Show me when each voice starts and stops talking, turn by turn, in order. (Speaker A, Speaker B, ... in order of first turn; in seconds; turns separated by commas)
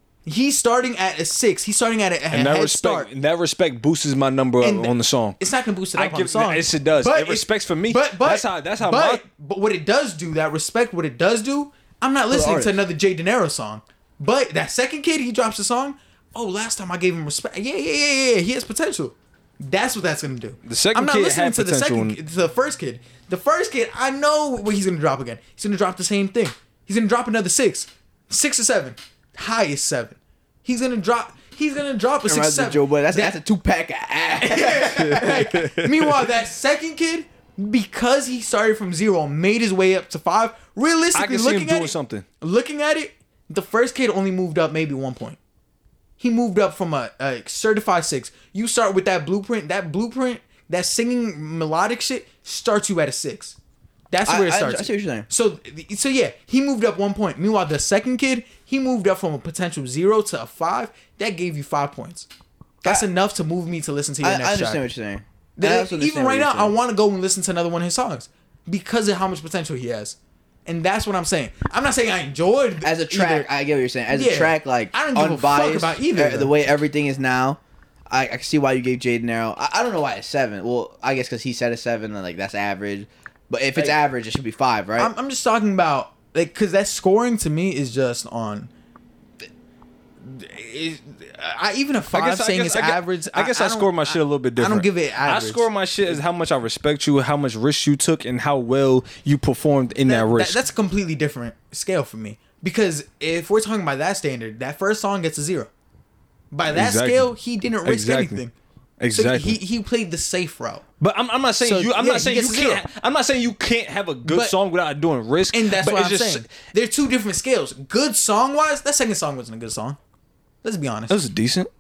Speaker A: 0.3-3.1, Speaker B: 2.3-5.4, Speaker A: 4.6-33.4, Speaker B: 6.0-9.2, Speaker C: 12.3-12.8, Speaker B: 20.7-22.2, Speaker C: 32.3-35.3, Speaker A: 34.4-45.4, Speaker B: 35.1-36.2, Speaker B: 41.1-42.2, Speaker A: 46.2-53.6, Speaker A: 54.1-62.3, Speaker C: 54.3-55.3, Speaker A: 62.8-64.8, Speaker C: 64.2-66.7, Speaker A: 65.6-73.5, Speaker C: 72.8-85.1, Speaker A: 74.1-76.5, Speaker A: 85.0-88.7, Speaker A: 90.2-96.2, Speaker B: 92.1-100.6, Speaker A: 100.1-105.7, Speaker A: 106.5-108.5, Speaker B: 106.7-108.4, Speaker B: 109.0-109.6, Speaker A: 109.1-110.8, Speaker B: 111.0-116.5, Speaker A: 111.6-112.8, Speaker A: 114.2-114.5, Speaker A: 115.5-120.0, Speaker A: 120.6-121.2, Speaker B: 121.1-121.7